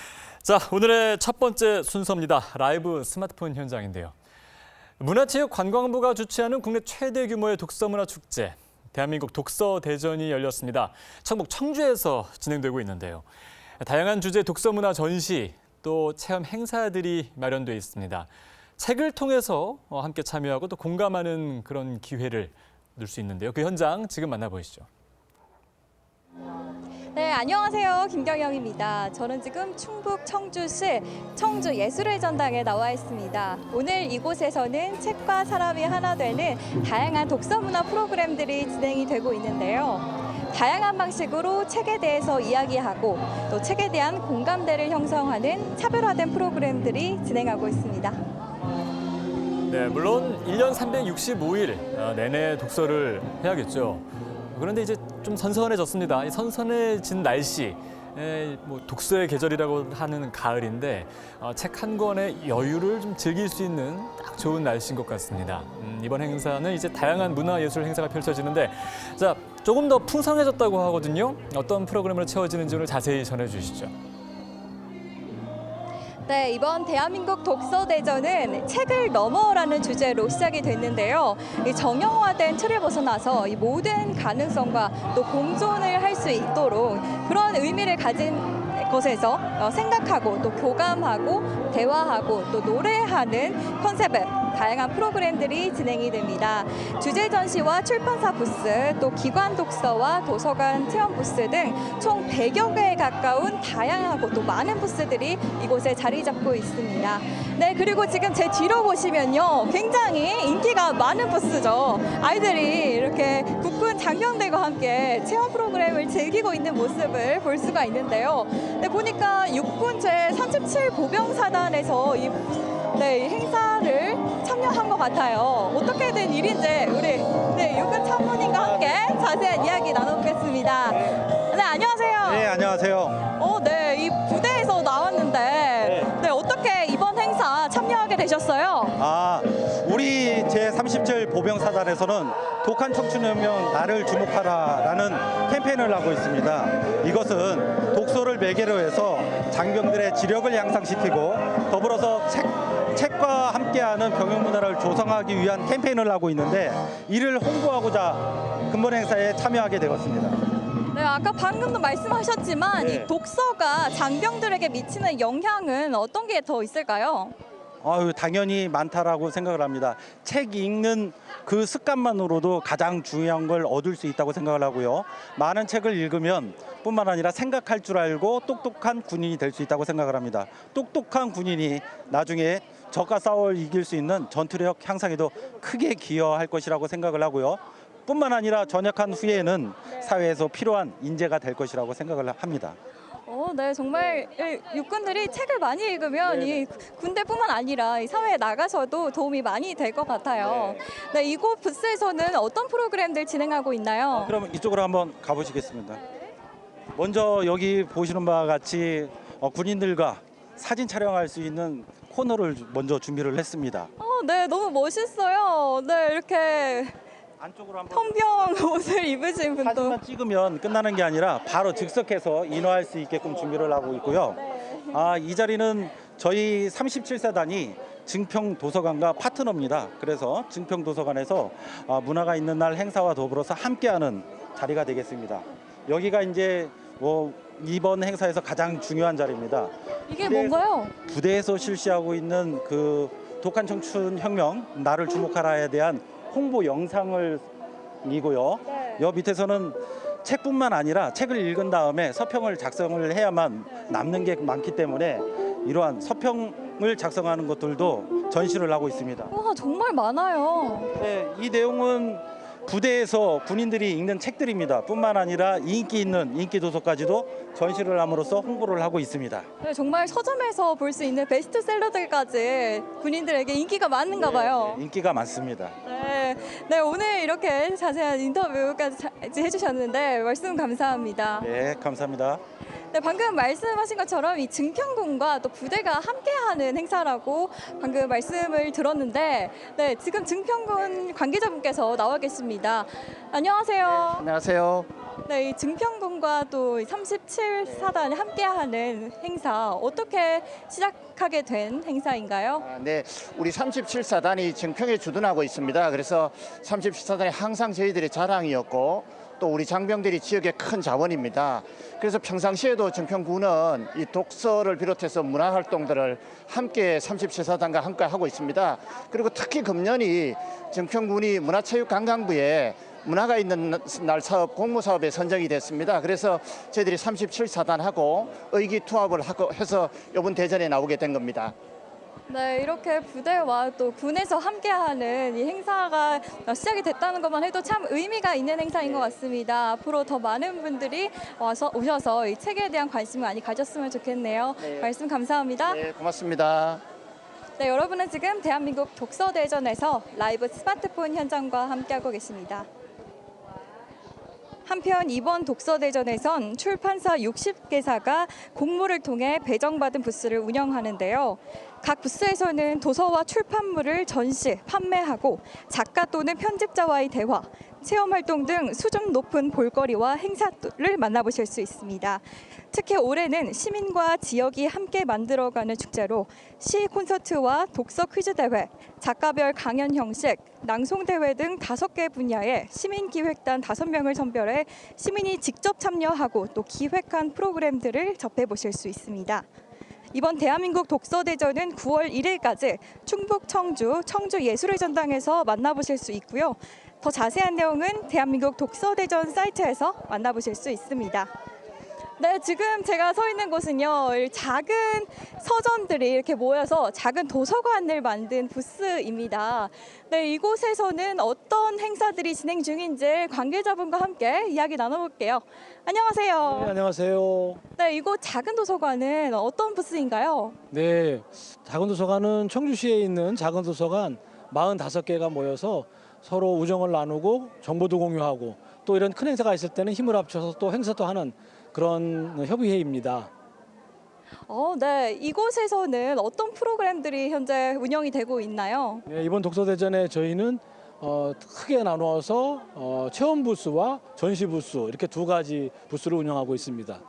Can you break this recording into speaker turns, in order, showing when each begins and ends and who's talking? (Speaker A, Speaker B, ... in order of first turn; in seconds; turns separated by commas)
Speaker A: 0.4-4.1, Speaker A: 5.0-13.3, Speaker A: 13.8-24.9, Speaker B: 27.1-48.2, Speaker A: 49.7-73.9, Speaker B: 76.2-132.5, Speaker C: 132.2-133.2, Speaker B: 133.3-139.0, Speaker C: 135.8-136.1, Speaker C: 139.0-160.4, Speaker B: 160.9-167.3, Speaker C: 162.8-163.1, Speaker C: 167.8-192.8, Speaker B: 193.2-204.3, Speaker C: 196.3-196.6, Speaker C: 200.4-200.8, Speaker C: 204.1-206.0, Speaker C: 206.9-213.9, Speaker B: 214.0-217.0, Speaker C: 217.4-218.2, Speaker B: 217.9-220.0, Speaker C: 219.6-247.4, Speaker B: 240.1-240.9, Speaker C: 248.0-259.3, Speaker B: 259.3-260.9, Speaker C: 261.0-269.5, Speaker B: 269.6-274.8, Speaker C: 274.2-275.8, Speaker B: 275.8-281.5, Speaker C: 281.4-282.4, Speaker B: 282.8-294.2, Speaker D: 294.1-294.9, Speaker B: 295.2-302.6, Speaker D: 302.6-331.6, Speaker B: 332.3-345.8, Speaker D: 344.6-344.9, Speaker D: 345.6-346.8, Speaker B: 347.6-352.7, Speaker B: 354.6-389.5, Speaker B: 390.1-401.3, Speaker B: 402.2-416.7, Speaker E: 416.4-417.6, Speaker B: 417.8-420.6, Speaker E: 420.7-433.3, Speaker B: 434.5-439.0, Speaker E: 439.1-447.0